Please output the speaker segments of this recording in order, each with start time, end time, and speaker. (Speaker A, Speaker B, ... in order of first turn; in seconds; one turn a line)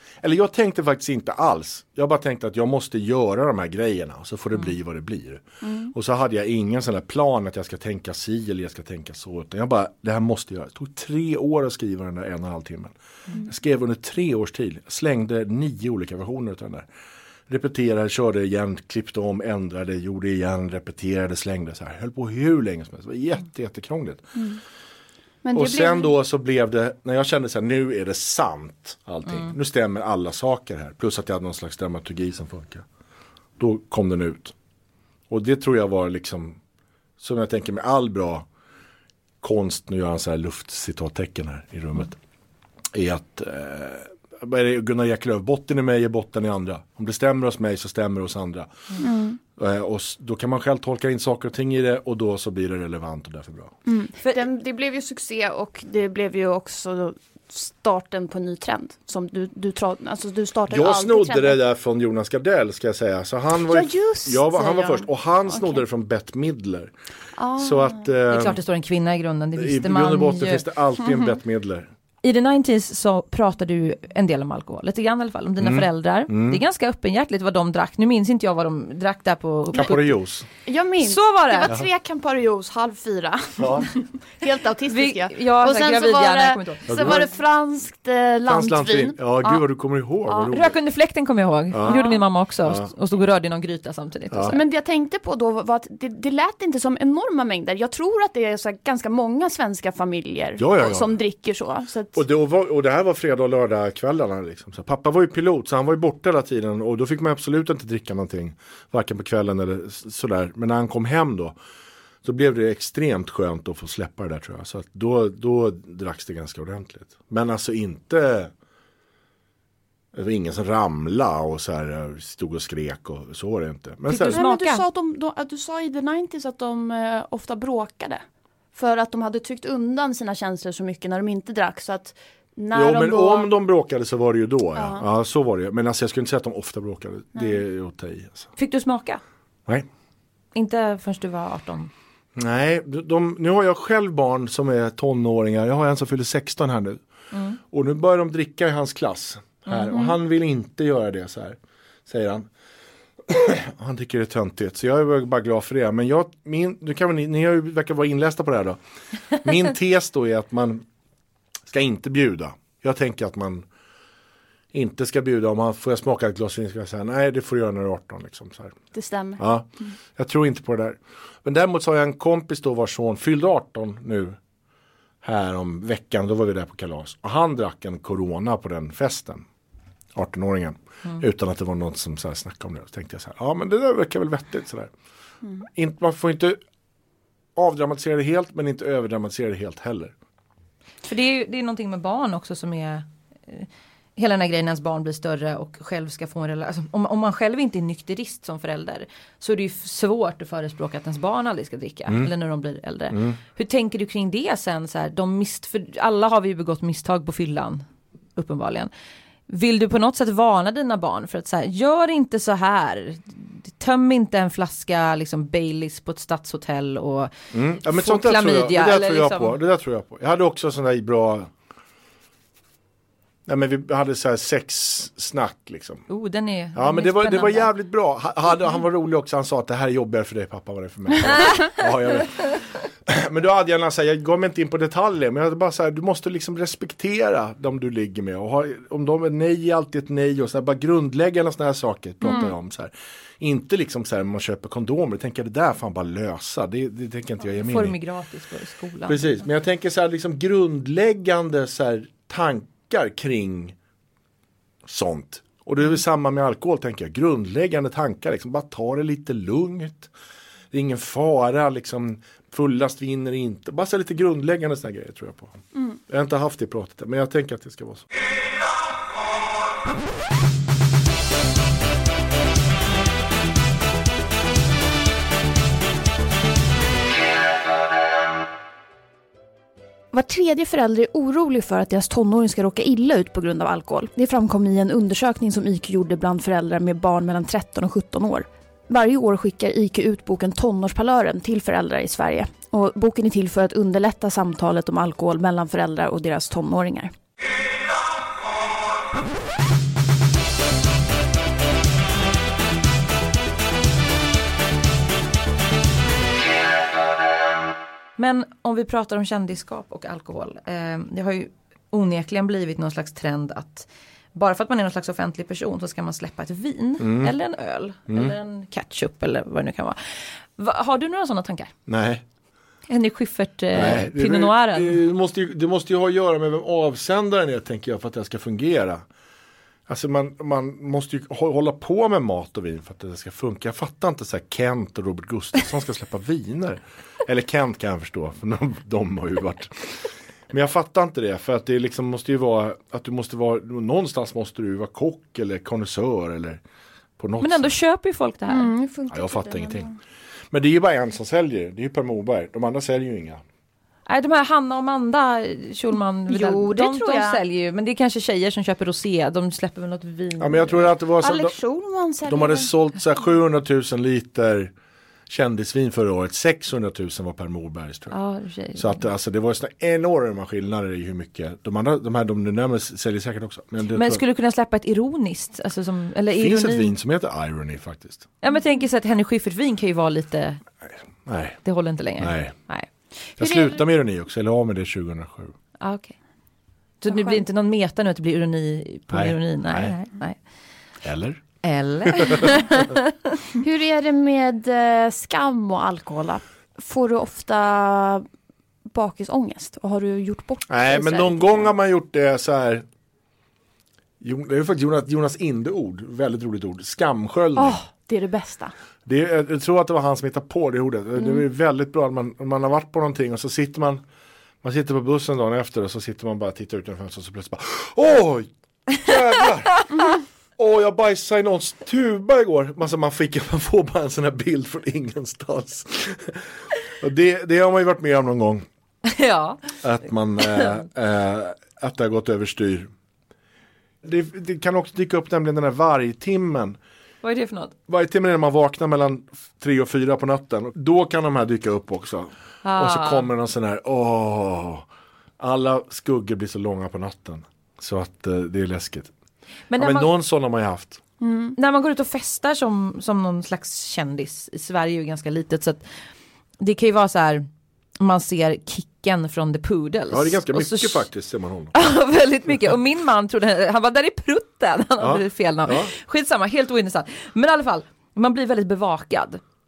Speaker A: 0.2-12.9
Speaker B: 5.6-5.9
Speaker A: 13.5-16.9
Speaker A: 17.5-24.2
Speaker B: 24.4-24.6
Speaker B: 25.4-26.1
Speaker A: 25.5-32.9
Speaker A: 33.6-34.5
Speaker A: 35.3-36.6
Speaker A: 37.2-38.5
Speaker A: 39.4-42.2
Speaker A: 42.9-48.7
Speaker B: 49.0-49.4
Speaker A: 49.6-53.7
Speaker B: 53.9-61.6
Speaker A: 60.7-66.9
Speaker B: 63.7-65.8
Speaker B: 67.4-68.0
Speaker A: 67.6-68.6
Speaker C: 68.3-70.6
Speaker A: 69.6-71.9
Speaker C: 72.2-80.2
Speaker A: 75.6-76.6
Speaker A: 79.8-80.5
Speaker B: 80.7-89.6
Speaker C: 81.0-81.7
Speaker A: 83.6-83.9
Speaker C: 84.9-87.2
Speaker A: 86.9-87.2
Speaker A: 88.5-90.8
Speaker C: 90.5-94.6
Speaker A: 91.7-92.0
Speaker B: 91.8-92.2
Speaker A: 92.6-92.9
Speaker A: 94.3-94.6
Speaker B: 94.5-102.2
Speaker A: 100.6-101.1
Speaker A: 102.2-111.6
Speaker A: 112.2-118.5
Speaker A: 120.1-124.4
Speaker C: 124.1-124.8
Speaker B: 124.1-133.5
Speaker A: 132.7-138.5
Speaker B: 134.8-135.1
Speaker C: 138.6-139.2
Speaker C: 140.6-141.9
Speaker A: 142.4-147.0
Speaker C: 147.3-147.6
Speaker A: 147.7-152.5
Speaker C: 149.7-150.1
Speaker A: 153.3-158.8
Speaker A: 159.3-160.8
Speaker A: 161.7-163.7
Speaker A: 164.7-168.8
Speaker B: 168.9-169.4
Speaker A: 169.4-174.4
Speaker A: 175.2-179.5
Speaker A: 180.2-184.9
Speaker A: 185.7-186.6
Speaker A: 187.6-190.1
Speaker C: 191.1-207.8
Speaker A: 203.1-203.4
Speaker C: 208.4-208.9
Speaker C: 209.5-217.3
Speaker A: 217.5-221.5
Speaker C: 217.8-219.6
Speaker A: 223.5-226.0
Speaker C: 226.1-227.7
Speaker A: 226.8-248.0
Speaker C: 247.6-249.3
Speaker A: 249.1-253.8
Speaker A: 254.9-260.1
Speaker A: 260.7-268.1
Speaker B: 280.1-297.1
Speaker C: 308.2-321.7
Speaker A: 317.0-317.3
Speaker A: 318.1-318.4
Speaker A: 321.9-322.2
Speaker C: 322.9-325.0
Speaker A: 323.7-329.1
Speaker A: 329.9-346.6
Speaker A: 347.2-347.7
Speaker C: 347.4-348.7
Speaker B: 348.5-350.0
Speaker A: 349.1-349.9
Speaker A: 350.5-353.4
Speaker C: 354.1-360.9
Speaker B: 356.3-357.4
Speaker A: 360.4-361.6
Speaker B: 361.2-362.7
Speaker A: 362.3-364.7
Speaker A: 365.3-368.1
Speaker C: 368.1-369.0
Speaker A: 368.8-374.2
Speaker C: 373.9-376.9
Speaker A: 376.4-378.3
Speaker C: 378.4-380.6
Speaker A: 381.2-381.6
Speaker C: 381.6-382.9
Speaker A: 382.2-382.6
Speaker B: 383.4-383.8
Speaker A: 383.4-385.6
Speaker C: 385.8-386.2
Speaker C: 387.0-390.4
Speaker B: 387.1-387.4
Speaker A: 389.1-389.9
Speaker A: 391.0-391.4
Speaker C: 391.6-393.4
Speaker A: 392.1-392.4
Speaker B: 393.5-398.3
Speaker B: 398.9-401.7
Speaker A: 400.7-402.9
Speaker A: 404.2-407.8
Speaker B: 407.6-408.7
Speaker A: 409.1-414.0
Speaker A: 414.6-419.9
Speaker A: 420.6-428.7
Speaker C: 429.1-429.8
Speaker A: 429.8-432.9
Speaker A: 434.0-436.8
Speaker C: 437.2-437.8
Speaker A: 437.9-444.9
Speaker C: 442.6-443.3
Speaker A: 445.4-449.1
Speaker C: 449.7-450.1
Speaker A: 449.8-451.0
Speaker B: 451.2-451.6
Speaker C: 451.6-455.8
Speaker C: 456.6-457.4
Speaker C: 458.0-461.1
Speaker A: 460.1-461.7
Speaker C: 461.7-469.4
Speaker A: 465.0-465.9